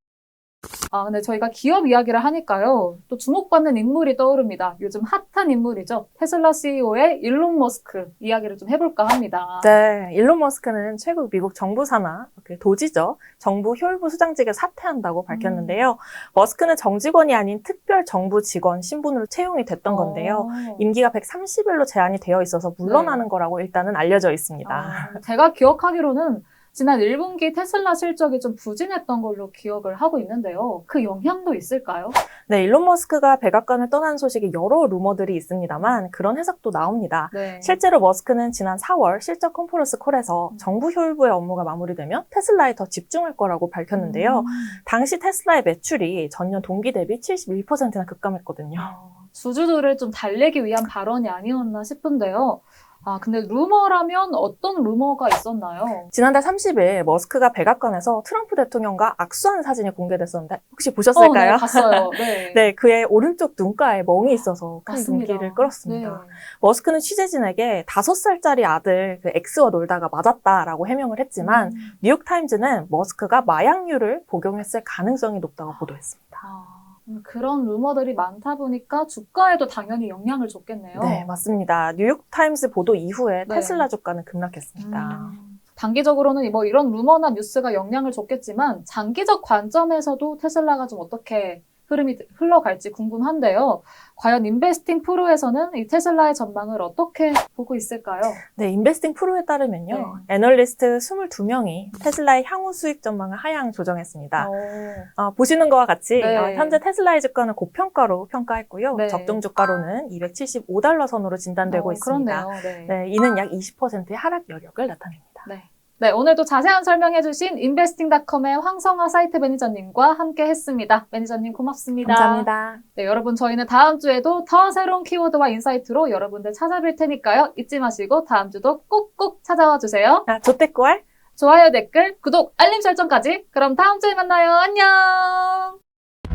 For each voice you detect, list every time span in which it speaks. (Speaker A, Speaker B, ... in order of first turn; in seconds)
Speaker A: 0.9-9.7, 15.3-15.8, 19.9-20.9, 22.8-23.2, 24.6-32.2, 35.8-36.0, 37.3-37.8, 43.9-44.8, 48.8-56.1, 61.1-62.7, 64.3-66.4, 71.4-71.9, 76.4-81.2, 83.5-83.9, 84.8-98.4, 99.9-100.2, 104.4-105.1, 106.2-106.8, 108.9-109.4, 111.7-113.0, 115.5-130.2, 131.4-135.8
Speaker B: 9.6-25.2, 32.4-48.9, 56.1-76.4, 80.9-85.3, 98.5-104.5, 105.2-115.5, 122.0-122.8, 130.3-131.0